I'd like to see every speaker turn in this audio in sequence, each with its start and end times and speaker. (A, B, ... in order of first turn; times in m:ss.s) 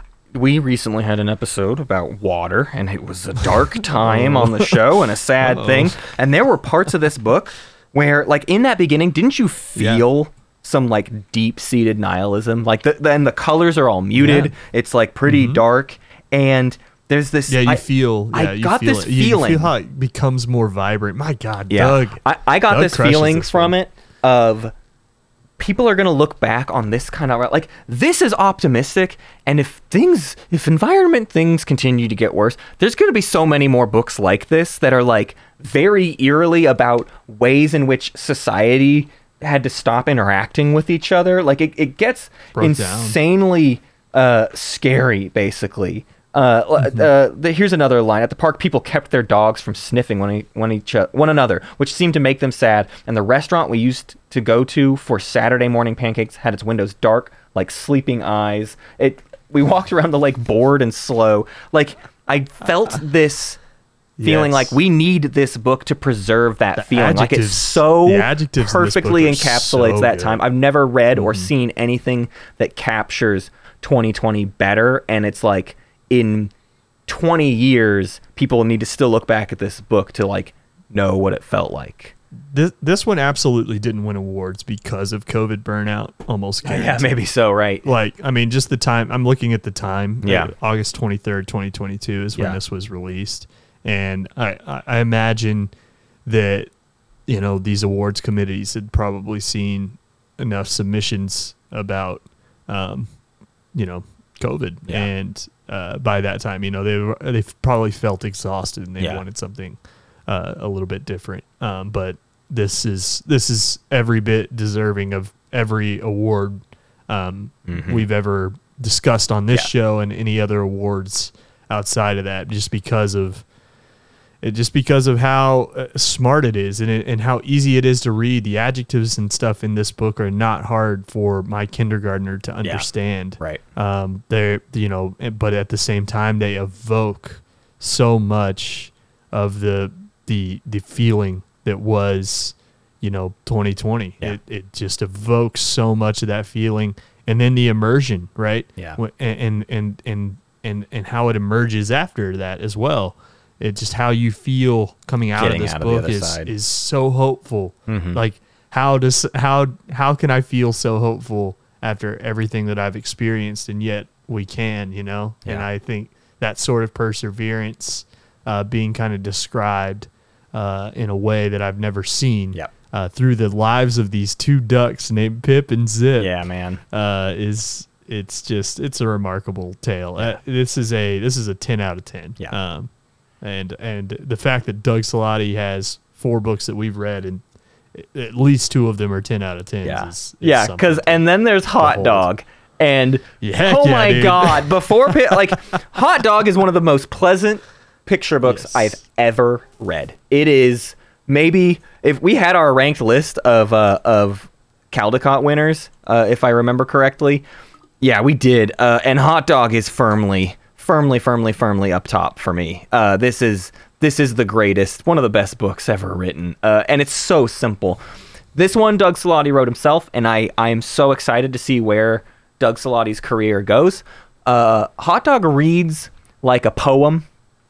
0:00.4-0:19.7 A
0:03.9-0:04.8 B
0:05.4-0:06.0 B
0:09.8-0:10.0 B
0:14.2-0:14.5 B
0:15.3-0:15.6 B
0:17.5-0:23.7 B
0:21.7-0:24.7 A
0:25.6-1:03.6 A
0:42.5-0:43.2 B
1:04.2-1:04.8 B
1:04.2-1:16.5 A
1:06.8-1:10.4 B
1:11.2-1:11.5 B
1:17.1-1:22.1 A
1:22.5-1:27.2 B
1:26.6-1:27.9 A
1:27.8-1:35.7 B
1:30.2-1:30.5 A
1:36.3-1:36.7 B
1:37.3-1:43.1 B
1:43.7-2:03.5 B
1:57.7-1:58.1 A
2:04.4-2:56.4 B
2:35.4-2:36.5 A
2:37.9-2:38.2 A
2:56.2-2:56.8 A
2:56.9-3:02.9 B
3:03.4-3:07.4 B
3:07.9-3:11.2 B
3:09.8-3:27.4 A
3:11.8-3:12.3 B
3:13.4-3:15.4 B
3:18.4-3:19.0 B
3:28.0-3:38.0 A
3:38.6-3:47.3 A